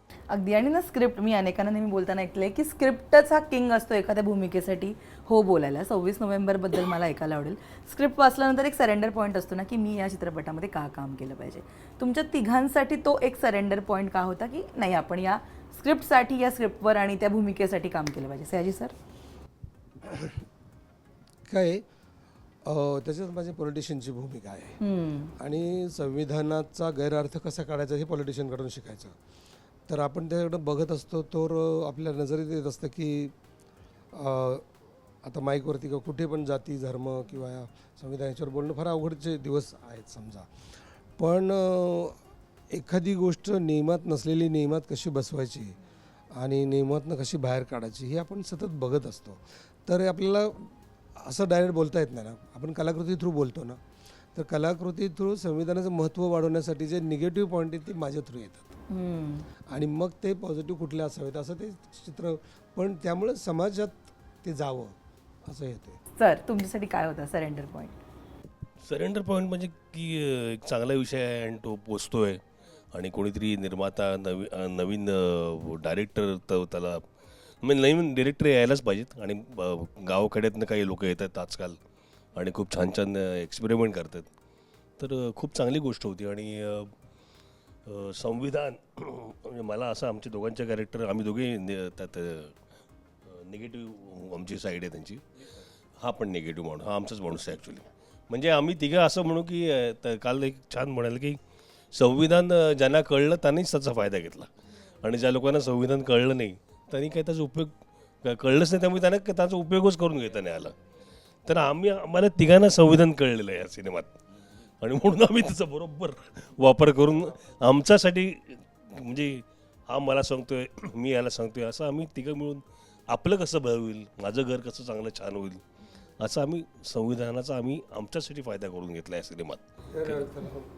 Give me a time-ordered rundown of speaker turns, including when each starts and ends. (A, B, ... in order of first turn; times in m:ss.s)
0:00.3-0:18.9 A
0:20.1-0:20.4 B
0:21.5-0:21.8 B
0:22.6-0:24.8 B
0:24.8-0:25.3 A
0:25.4-0:29.1 B
0:29.9-0:33.3 B
0:34.1-0:34.6 B
0:35.2-0:40.5 B
0:41.2-0:42.2 B
0:42.7-0:45.8 B
0:46.4-0:53.8 B
0:54.3-0:58.8 B
0:58.9-0:59.5 A
0:59.7-1:06.0 B
1:06.2-1:08.0 A
1:08.8-1:12.4 C
1:12.9-1:17.0 C
1:17.6-1:21.8 C
1:22.3-1:24.3 C
1:25.0-1:26.9 C
1:27.8-1:32.6 C
1:33.2-1:35.2 C
1:36.0-1:41.4 C
1:41.9-1:50.8 C
1:51.4-1:54.2 C
1:54.8-2:05.6 C
2:06.2-2:09.6 C
2:09.9-2:10.7 B